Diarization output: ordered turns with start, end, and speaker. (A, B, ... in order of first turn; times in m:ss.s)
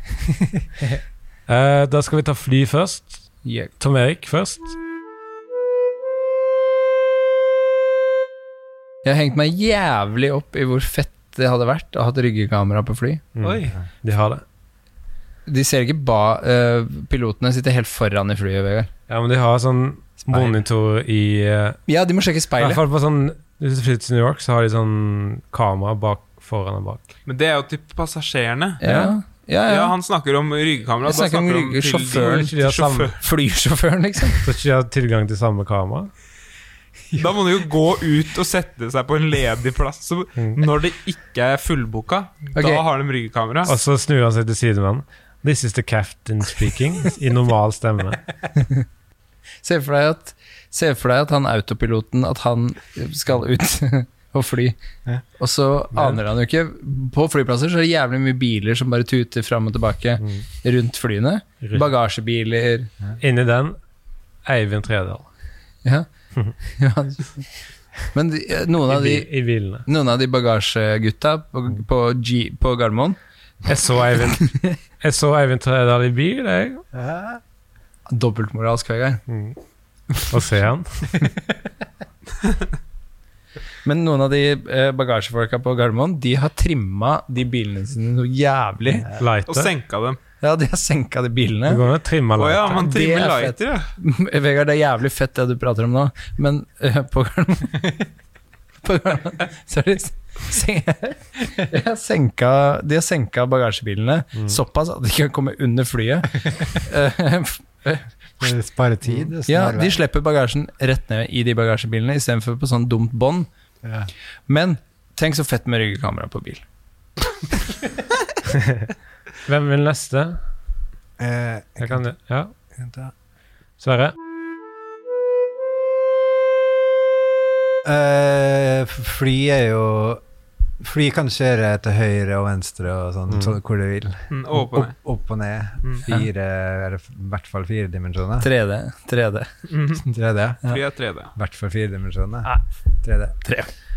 0:01.5-0:04.8 A
0:03.4-0:03.7 B
0:09.0-0:13.2 B
0:13.4-0:14.4 A
0:13.4-0:13.7 C
0:15.5-0:18.9 B
0:19.1-0:21.8 A
0:20.3-0:20.6 B
0:21.9-0:22.8 B
0:22.6-0:27.0 A
0:27.3-0:28.8 C
0:28.8-0:30.0 B
0:28.8-0:29.1 A
0:29.7-0:33.2 C
0:31.0-0:32.6 B
0:32.1-0:33.2 A
0:33.2-0:34.5 B
0:34.4-0:36.1 A
0:37.1-0:43.8 C
0:42.6-0:42.8 B
0:43.6-0:48.3 A
0:48.6-0:48.8 B
0:49.6-0:54.8 B
0:55.4-1:02.9 B
0:55.9-0:56.2 A
1:01.6-1:01.9 A
1:03.2-1:03.8 A
1:04.4-1:05.3 A
1:05.8-1:07.5 B
1:08.1-1:09.3 B
1:08.9-1:09.8 A
1:09.8-1:13.2 B
1:13.6-1:16.8 A
1:14.4-1:14.8 B
1:16.9-1:17.4 D
1:18.1-1:19.2 B
1:19.3-1:19.6 A
1:20.2-1:21.3 A
1:23.8-1:29.1 B
1:29.1-1:29.7 A
1:29.5-1:30.2 C
1:30.4-1:31.8 B
1:31.7-1:32.8 A
1:32.4-1:33.9 C
1:32.6-1:37.9 B
1:38.8-1:48.1 B
1:48.4-1:50.0 D
1:49.5-1:53.5 B
1:53.8-1:54.1 D
1:54.5-1:56.6 B
1:58.5-1:58.9 A
1:59.4-2:00.4 A
2:01.2-2:02.0 D
2:01.8-2:02.5 A
2:02.8-2:03.1 D
2:03.8-2:04.2 A
2:07.8-2:10.2 D
2:10.8-2:18.5 D
2:13.3-2:13.6 A
2:14.3-2:15.0 C
2:18.4-2:19.5 B
2:19.7-2:20.0 C
2:20.0-2:20.6 D
2:20.6-2:21.3 C
2:21.4-2:22.5 D
2:23.0-2:23.4 D
2:23.4-2:23.7 B